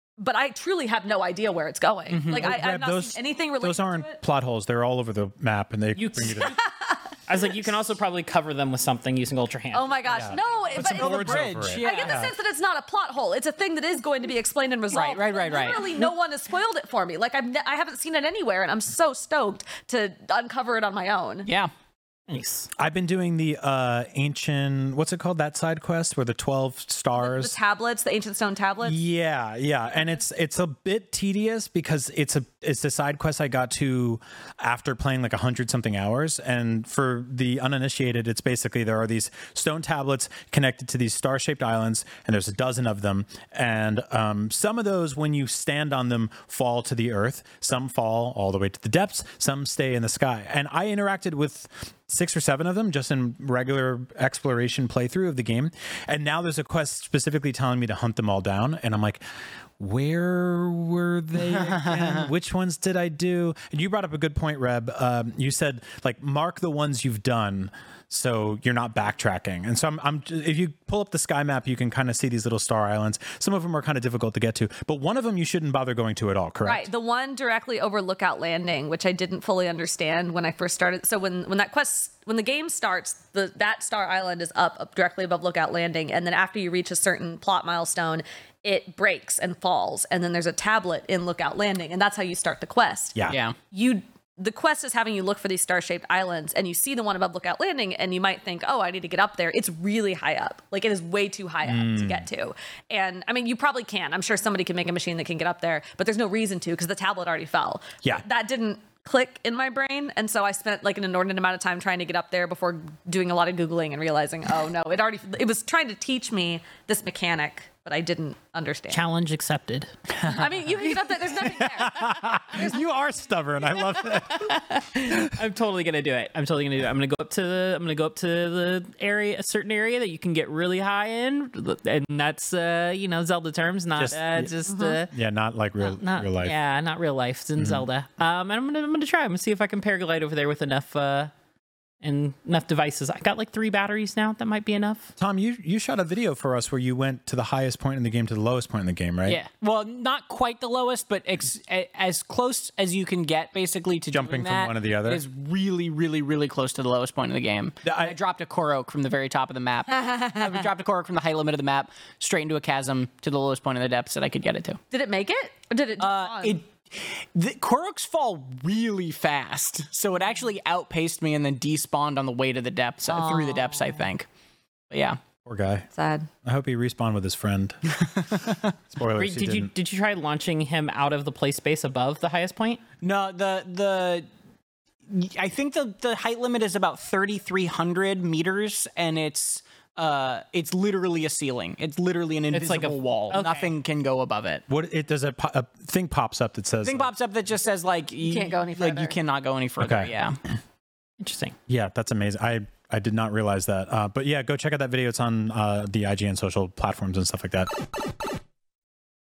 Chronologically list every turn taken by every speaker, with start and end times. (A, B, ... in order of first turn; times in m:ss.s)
0:00.2-0:04.2 A
0:02.1-0:02.5 B
0:02.3-0:06.6 C
0:06.0-0:06.4 D
0:06.4-0:07.1 A
0:07.3-0:10.0 D
0:09.7-0:21.5 A
0:10.1-0:12.3 C
0:10.7-0:12.3 B
0:14.9-0:16.1 B
0:21.5-0:21.7 B
0:22.3-0:22.7 D
0:22.8-0:27.6 C
0:27.2-0:29.0 A
0:28.8-0:59.2 C
0:59.8-1:16.9 C
1:01.5-1:02.3 B
1:16.6-1:33.2 A
1:33.2-1:33.4 C
1:33.3-1:33.6 B
1:33.7-1:59.0 A
1:41.6-1:42.2 C
1:58.9-1:59.9 D
2:00.3-2:02.8 A
2:00.7-2:05.2 C
2:04.0-2:15.1 D
2:14.0-2:14.5 C
2:14.7-2:15.0 A
2:15.1-2:16.6 C
2:15.8-2:21.3 D
2:17.6-2:17.9 C
2:22.0-2:25.1 D
2:25.2-2:29.4 C
2:29.2-2:44.8 B
2:34.1-2:35.2 C
2:37.8-2:38.2 C
2:39.9-2:40.4 A
2:44.9-2:46.6 A
2:46.0-2:54.3 B
2:53.1-2:54.1 A
2:54.9-2:55.2 B
2:55.5-2:55.9 C
2:55.9-2:56.3 A
2:56.4-2:57.8 C
2:58.9-2:59.7 C
2:59.2-3:02.8 D
3:03.0-3:04.3 B
3:05.1-3:14.6 B
3:12.5-3:13.7 D
3:14.7-3:17.1 C
3:16.8-3:20.4 B
3:18.2-3:19.2 A
3:19.8-3:20.1 C
3:21.2-3:21.6 D
3:21.7-3:27.7 C